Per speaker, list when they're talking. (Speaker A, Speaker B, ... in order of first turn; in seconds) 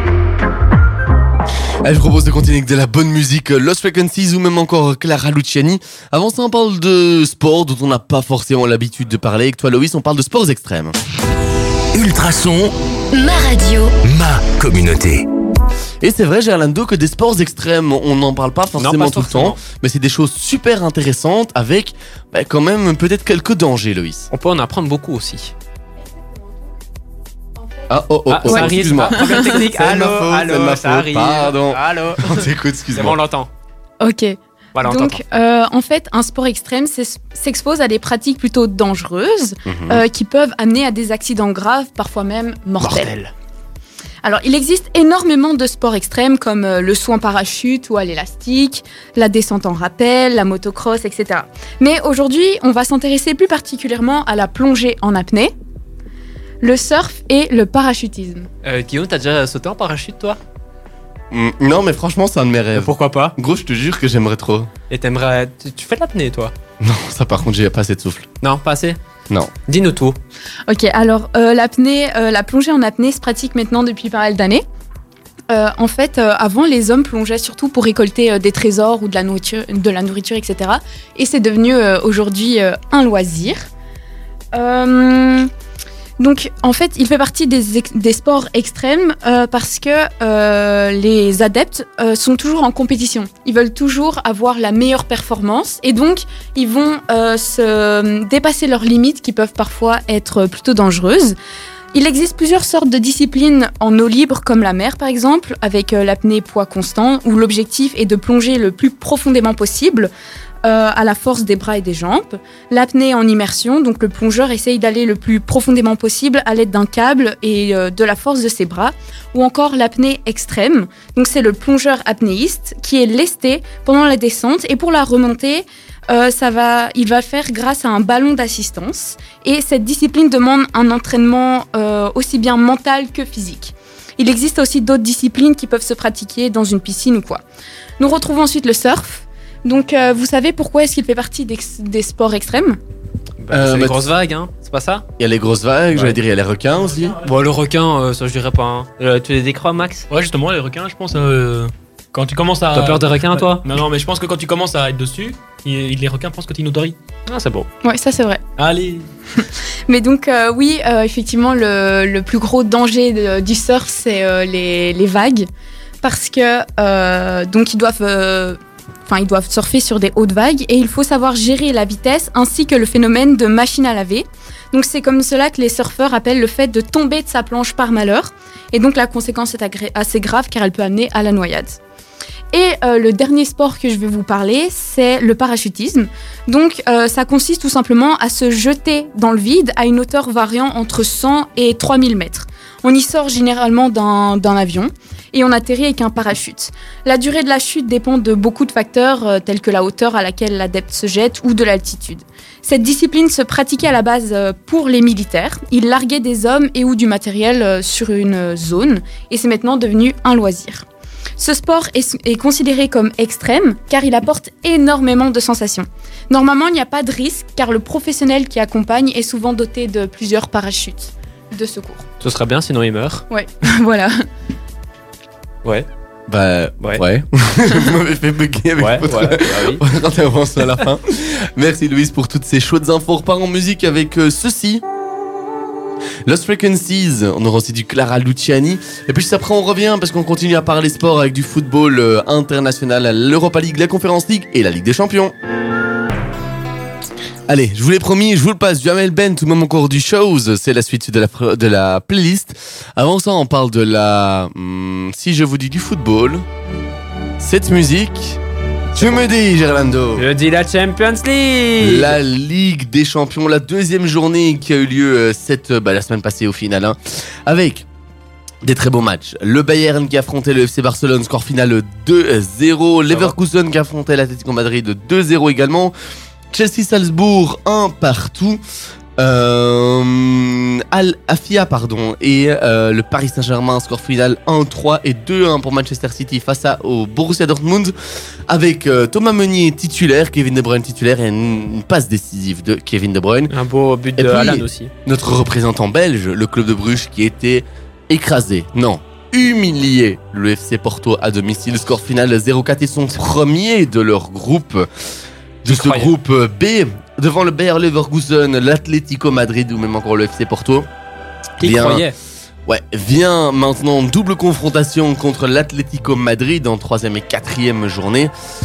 Speaker A: 1.8-11.0, 16.0-24.3, 27.9-33.2, 39.7-40.0, 61.3-64.7, 66.8-68.3, 143.5-144.1, 145.2-147.2, 226.3-234.8, 236.2-245.3, 247.5-256.4, 257.4-258.4, 258.9-260.3, 261.8-267.9, 268.6-275.9, 276.5-278.6, 279.2-287.9, 288.5-293.5, 294.2-304.9, 305.6-310.9, 311.6-312.1, 312.7-318.3
Speaker B: 11.9-12.8, 14.0-15.2
Speaker C: 18.8-19.6, 24.3-25.5, 28.3-33.5, 34.8-35.2, 42.8-43.3, 58.6-60.4, 62.8-63.4, 64.9-66.5, 68.4-69.0, 69.7-70.2, 143.4-145.1, 145.9-146.2, 147.2-150.1, 152.7-153.7, 157.3-157.7, 222.2-223.3, 228.8-229.8, 259.0-259.2, 260.2-262.2, 273.1-273.4, 293.5-294.9, 305.7-306.1, 311.6-312.2
Speaker D: 28.5-29.5, 34.0-43.1, 44.2-55.5, 56.6-58.5, 70.7-74.7, 75.5-83.7, 84.5-85.5, 86.2-101.4, 101.9-110.1, 110.6-137.4, 138.0-142.8, 157.8-158.4, 159.4-165.5, 166.0-181.8, 182.5-210.8, 211.4-222.1, 223.3-224.2
Speaker E: 150.1-157.0, 158.6-159.1